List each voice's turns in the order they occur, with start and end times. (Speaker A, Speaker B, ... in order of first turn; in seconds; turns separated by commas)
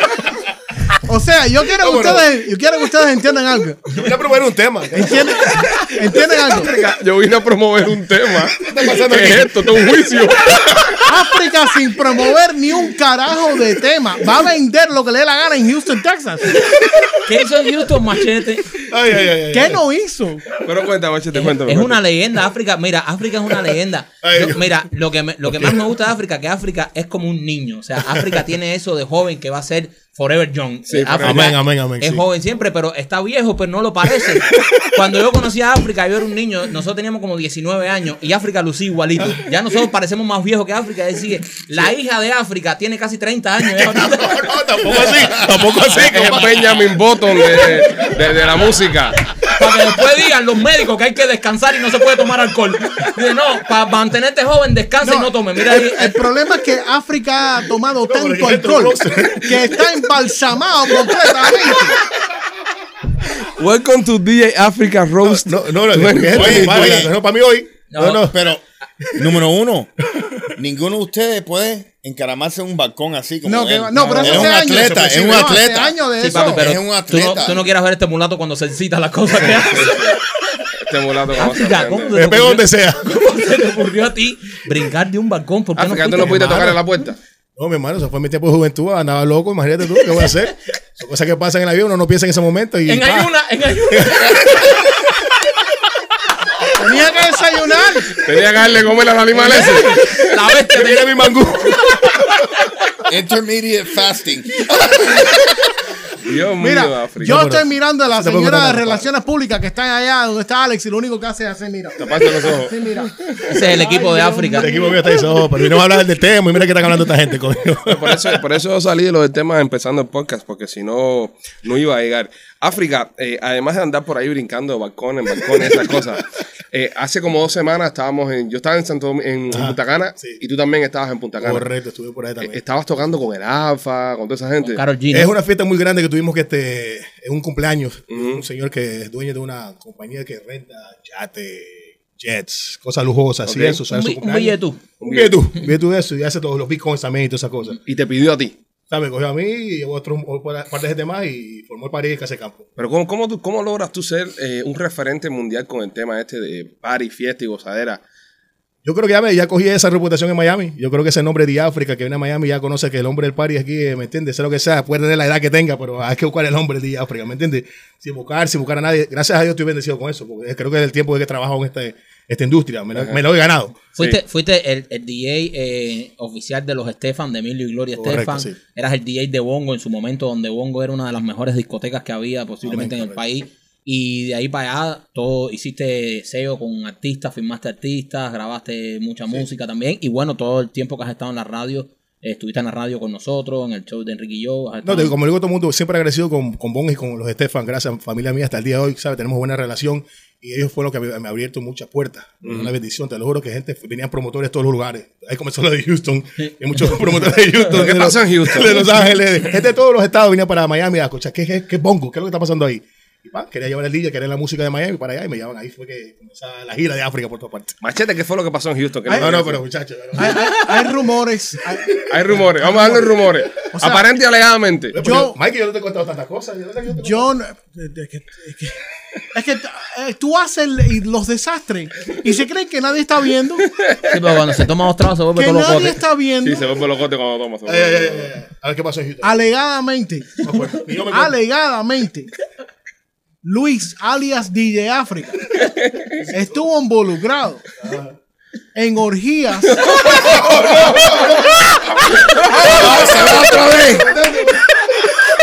Speaker A: 1.0-4.1, Speaker B: 1.8-2.3, Speaker B: 3.9-5.6, Speaker A: 4.9-6.7, Speaker C: 6.5-10.9, Speaker B: 8.6-9.6, Speaker A: 11.1-16.7, Speaker D: 17.2-18.8, Speaker B: 18.8-19.8, Speaker A: 19.5-20.5, Speaker C: 20.6-22.0, Speaker D: 21.3-44.6, Speaker B: 24.2-24.6, Speaker B: 25.4-25.8, Speaker C: 30.9-31.5, Speaker B: 31.2-32.2, Speaker B: 43.7-46.8, Speaker C: 45.7-49.2, Speaker B: 47.8-48.1, Speaker D: 49.4-56.2, Speaker A: 55.0-62.0, Speaker B: 58.0-59.9, Speaker C: 63.4-66.8, Speaker B: 65.3-68.4, Speaker E: 66.2-67.1, Speaker D: 67.9-68.3, Speaker E: 68.2-68.6, Speaker E: 69.2-69.9, Speaker E: 70.6-77.7, Speaker A: 73.5-76.7, Speaker C: 74.0-74.5, Speaker D: 76.2-80.1, Speaker C: 79.4-80.2, Speaker C: 80.8-82.2, Speaker D: 81.3-86.8, Speaker B: 82.1-83.1, Speaker C: 85.8-87.2, Speaker B: 86.2-86.8, Speaker B: 87.6-93.3, Speaker D: 92.9-94.6, Speaker B: 93.9-94.8, Speaker A: 96.8-98.2, Speaker C: 98.2-100.1, Speaker A: 99.3-99.9, Speaker B: 99.4-99.8, Speaker D: 100.2-101.2, Speaker B: 100.7-102.5, Speaker E: 103.1-105.3, Speaker C: 106.2-107.5, Speaker A: 106.6-115.0, Speaker B: 107.2-109.1, Speaker C: 112.0-112.8, Speaker D: 113.5-114.7, Speaker B: 114.5-118.4, Speaker C: 117.8-131.7, Speaker B: 129.5-130.4, Speaker B: 131.4-132.6, Speaker C: 132.4-134.8, Speaker D: 134.7-135.3, Speaker B: 135.1-147.8, Speaker C: 138.1-138.4, Speaker C: 143.4-143.8, Speaker D: 143.9-144.8, Speaker C: 145.0-145.5, Speaker C: 147.8-148.6, Speaker B: 148.9-152.7, Speaker C: 152.8-158.0, Speaker B: 158.8-173.8, Speaker D: 174.0-195.1, Speaker B: 178.0-178.6, Speaker B: 182.6-183.2, Speaker B: 194.8-217.8, Speaker C: 207.7-209.0, Speaker C: 217.8-219.6, Speaker A: 219.1-219.3, Speaker B: 219.2-220.5, Speaker A: 220.2-222.1, Speaker C: 222.1-225.0, Speaker B: 222.3-223.0, Speaker A: 222.6-222.9, Speaker A: 223.7-224.1, Speaker B: 224.9-227.3, Speaker A: 225.0-225.3, Speaker A: 227.0-228.8, Speaker A: 229.3-233.7, Speaker D: 234.1-236.0, Speaker A: 235.3-236.7, Speaker C: 236.4-238.3, Speaker B: 237.7-239.4, Speaker A: 239.2-242.3, Speaker B: 240.4-241.3, Speaker A: 243.4-245.6, Speaker C: 245.6-246.2, Speaker A: 246.3-247.7, Speaker B: 247.8-248.1, Speaker A: 248.8-250.3, Speaker C: 249.7-254.0, Speaker B: 250.1-251.7, Speaker B: 252.6-254.8, Speaker E: 252.8-254.1